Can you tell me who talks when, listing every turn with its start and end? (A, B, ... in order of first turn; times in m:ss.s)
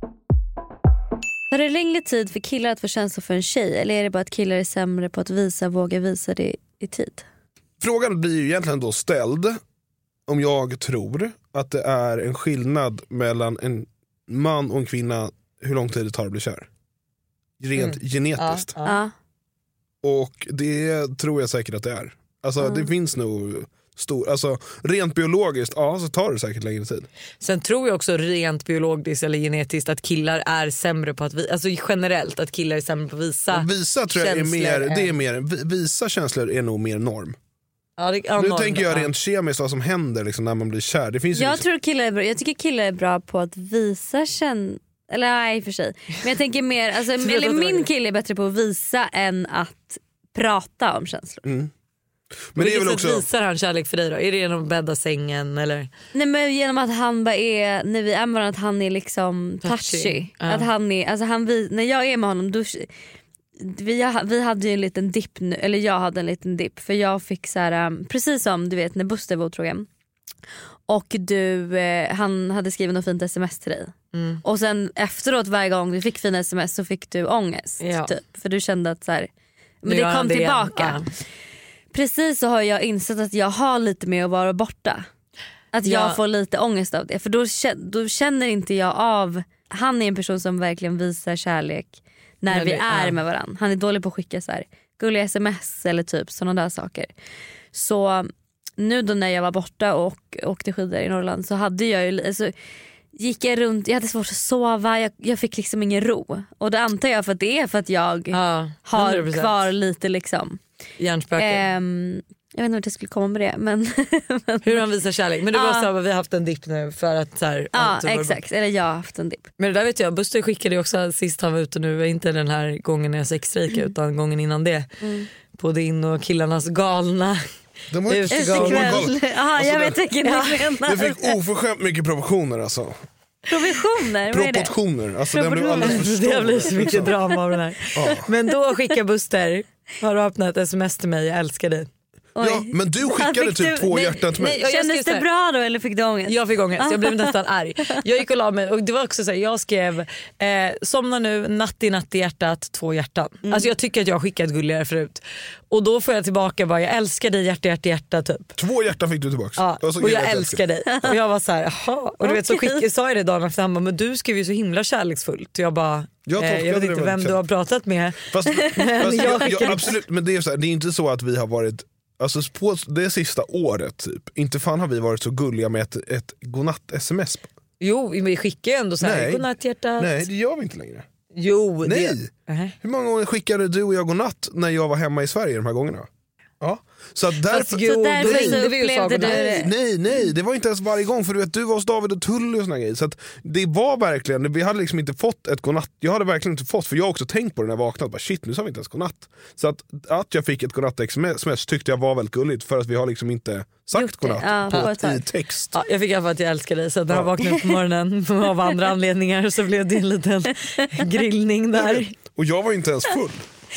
0:01.5-0:07.2 A
0:07.8-0:09.6 B
0:10.3-0:16.7 B
0:17.6-0:18.7 B
0:17.8-0:19.0 C
0:18.8-0:19.1 A
0:20.0-0:27.1 B
0:22.6-0:22.8 A
0:27.4-0:35.2 C
0:33.5-0:37.4 B
0:38.0-0:39.1 C
0:38.4-0:41.6 B
0:41.3-0:51.4 A
0:47.2-0:47.9 C
0:51.4-0:51.7 B
0:52.5-0:53.2 B
0:52.6-0:55.9 C
0:56.1-1:02.9 A
0:59.6-1:00.7 C
1:03.6-1:09.9 A
1:10.9-1:19.3 A
1:14.1-1:14.4 C
1:17.8-1:18.1 C
1:19.8-1:21.0 A
1:19.9-1:21.1 C
1:21.9-1:25.1 A
1:25.7-1:37.1 A
1:25.8-1:26.2 C
1:32.5-1:33.2 C
1:37.7-1:42.5 A
1:43.1-1:50.6 A
1:48.3-1:49.7 C
1:51.0-1:51.6 C
1:51.4-1:54.8 A
1:54.6-1:58.4 C
1:55.5-1:55.9 A
1:57.7-1:59.5 A
1:59.6-2:04.9 C
2:05.0-2:05.3 A
2:05.6-2:07.4 C
2:07.9-2:10.0 B
2:08.1-2:09.1 C
2:08.3-2:11.3 A
2:10.2-2:10.7 C
2:10.8-2:13.0 B
2:13.5-2:14.7 A
2:14.3-2:17.1 B
2:15.3-2:16.0 A
2:15.8-2:21.9 C
2:16.8-2:17.2 A
2:18.0-2:18.2 B
2:22.4-2:27.3 A
2:22.4-2:24.6 B
2:24.4-2:25.2 C
2:26.3-2:38.5 C
2:38.6-2:40.6 B
2:39.6-2:49.9 C
2:42.2-2:42.8 A
2:46.3-2:47.4 B
2:48.3-2:57.5 B
2:48.6-2:49.7 A
2:57.8-3:00.2 C
2:59.0-2:59.4 B
3:00.0-3:01.0 B
3:01.3-3:02.7 C
3:01.8-3:02.3 B
3:02.8-3:06.1 B
3:06.6-3:25.8 B
3:07.5-3:09.7 C
3:07.8-3:09.7 A
3:23.9-3:25.2 A
3:25.7-3:32.1 C
3:31.8-3:33.4 B